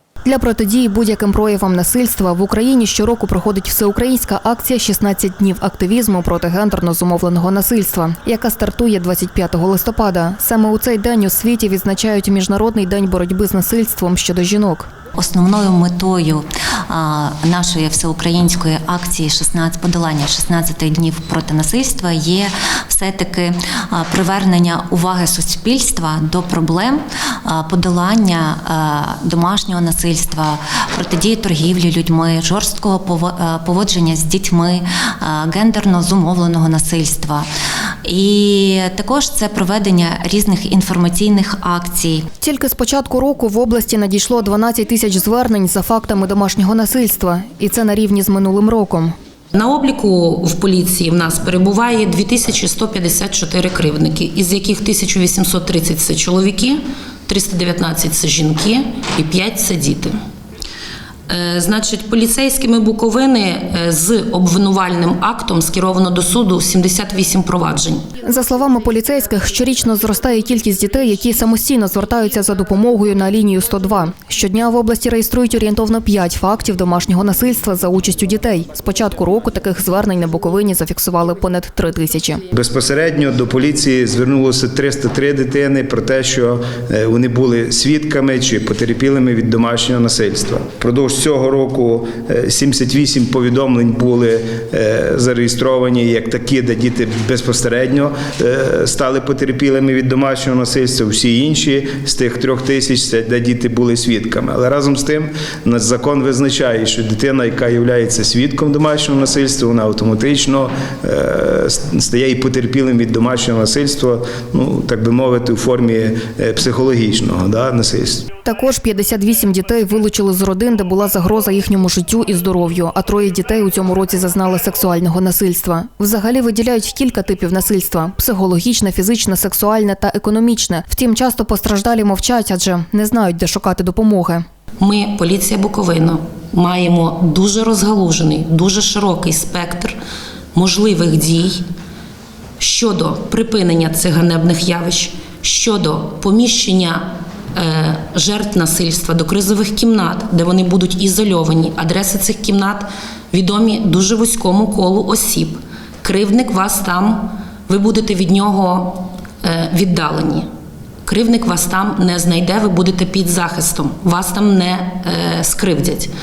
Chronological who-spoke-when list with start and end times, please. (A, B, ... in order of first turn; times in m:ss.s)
0:00.2-0:14.9 A
0:15.1-0:37.5 B
0:38.0-0:42.3 B
0:42.4-0:49.1 A
0:49.5-1:00.1 C
1:01.3-1:08.0 C
1:08.2-1:22.4 A
1:22.5-1:58.3 D
1:58.4-2:14.4 A
2:14.8-2:20.0 C
2:20.5-2:21.6 C
2:22.6-2:40.4 C
2:41.0-2:46.1 C